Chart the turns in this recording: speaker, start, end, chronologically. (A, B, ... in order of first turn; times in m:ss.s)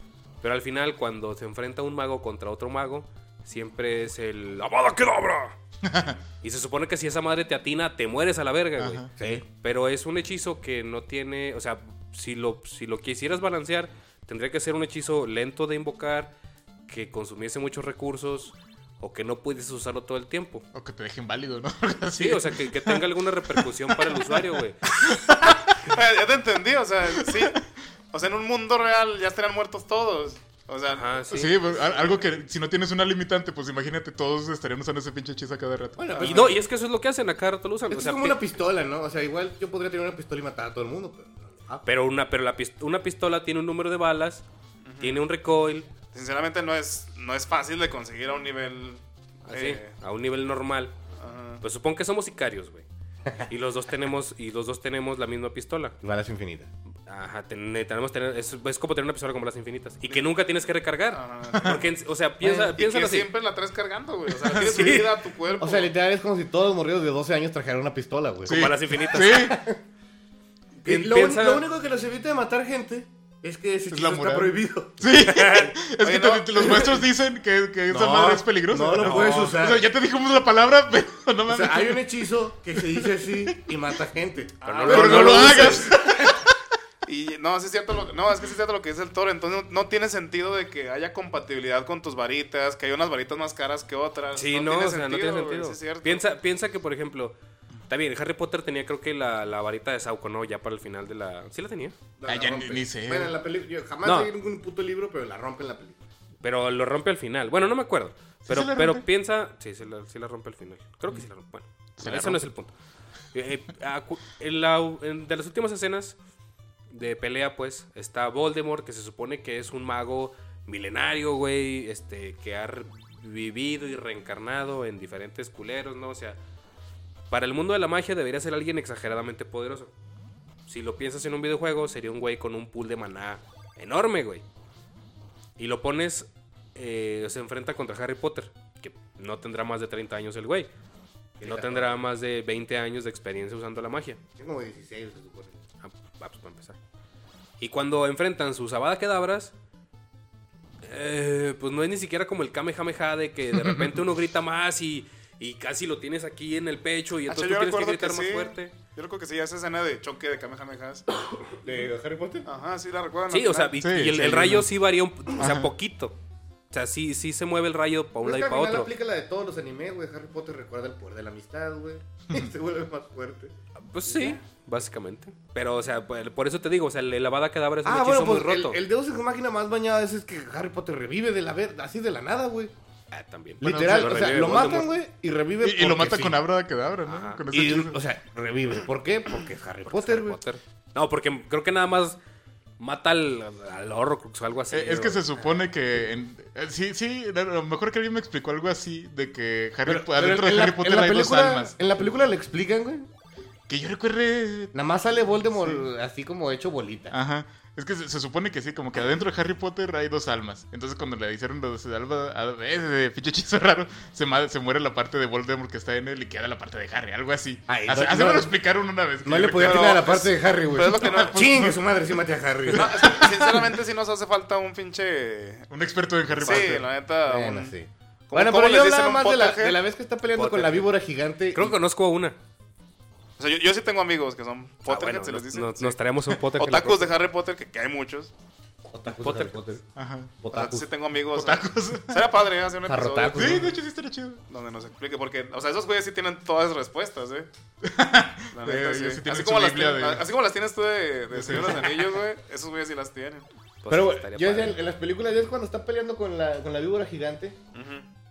0:00.4-0:05.5 A
0:05.8-0:06.2 B
0:06.4-0:16.3 A
0:08.8-0:09.1 B
0:09.2-0:09.4 C
0:16.9-0:20.6 A
0:20.7-0:24.5 B
0:22.2-0:24.8 A
0:25.0-0:25.8 B
0:25.8-0:27.6 D
0:27.2-0:27.5 B
0:28.1-0:32.0 D
0:30.9-0:31.6 A
0:31.3-0:36.5 B
0:36.0-0:36.6 C
0:36.2-0:36.4 D
0:36.2-0:38.4 A
0:37.9-0:41.8 C
0:41.8-0:44.4 A
0:44.8-0:45.2 D
0:45.0-0:45.9 A
0:46.1-0:49.9 D
0:49.4-0:50.9 A
0:51.2-0:51.6 D
0:51.6-0:52.8 A
0:53.4-0:56.0 A
0:56.0-0:56.7 C
0:57.1-1:03.3 A
1:01.1-1:02.0 D
1:01.5-1:01.8 B
1:02.4-1:02.7 C
1:02.8-1:05.9 D
1:04.4-1:05.0 B
1:04.6-1:05.0 A
1:05.6-1:09.8 C
1:08.4-1:09.6 A
1:08.4-1:09.6 B
1:10.8-1:15.0 C
1:10.8-1:11.6 A
1:13.9-1:22.0 B
1:15.2-1:15.7 A
1:16.0-1:17.0 D
1:16.6-1:17.0 C
1:17.9-1:19.8 C
1:19.0-1:19.5 A
1:21.5-1:26.3 C
1:22.7-1:23.6 B
1:24.6-1:25.7 D
1:24.8-1:26.5 B
1:25.0-1:25.7 A
1:27.0-1:36.3 D
1:34.3-1:37.4 A
1:37.9-1:41.9 A
1:42.2-1:46.0 C
1:42.2-1:43.3 B
1:44.0-1:44.3 A
1:46.4-1:52.7 A
1:48.5-1:49.0 B
1:52.0-1:52.4 B
1:53.3-1:56.2 A
1:56.9-2:06.4 A
2:07.3-2:09.9 A
2:10.7-2:14.4 A
2:15.6-2:20.7 A
2:21.4-2:21.9 C
2:21.4-2:24.2 A
2:24.4-2:25.6 C
2:25.8-2:26.8 A
2:27.6-2:29.5 A
2:30.8-2:38.7 A
2:33.5-2:34.0 B
2:37.3-2:41.0 D
2:41.4-2:42.5 C
2:42.4-2:43.7 D
2:43.3-2:46.1 A
2:43.8-2:44.7 B
2:45.4-2:45.7 B
2:46.7-2:48.9 A
2:48.2-2:53.5 C
2:53.8-2:58.8 A
2:54.0-2:54.4 C
2:57.8-3:02.7 C
3:03.1-3:04.9 A
3:03.6-3:06.4 C
3:03.6-3:04.1 B
3:05.6-3:08.0 B
3:07.0-3:07.4 A
3:07.5-3:10.4 C
3:09.9-3:12.2 A
3:12.8-3:15.2 A
3:14.7-3:21.7 B
3:19.8-3:23.1 C
3:23.7-3:24.7 B
3:24.7-3:27.1 C
3:25.5-3:25.8 B
3:27.1-3:40.2 B
3:37.7-3:38.5 C
3:39.2-3:43.3 C
3:39.6-3:41.4 D
3:40.7-3:41.8 B
3:42.7-3:43.7 B
3:42.7-3:45.7 D
3:45.7-3:46.9 B
3:46.4-3:47.7 D
3:46.4-3:46.8 A
3:47.2-3:51.8 C
3:48.3-3:49.8 D
3:50.3-3:50.9 A
3:51.5-3:52.4 A
3:53.4-3:58.3 D
3:54.8-3:57.1 A
3:58.8-3:59.8 C
3:59.2-3:59.6 A
3:59.9-4:00.3 B
4:00.4-4:00.9 C
4:00.5-4:03.6 D
4:01.3-4:02.4 B
4:02.8-4:03.8 C
4:03.3-4:04.4 B
4:04.5-4:07.5 D
4:07.8-4:10.3 B
4:08.5-4:13.5 D
4:11.3-4:12.0 B
4:13.8-4:14.8 A
4:13.9-4:17.6 C
4:17.7-4:18.0 D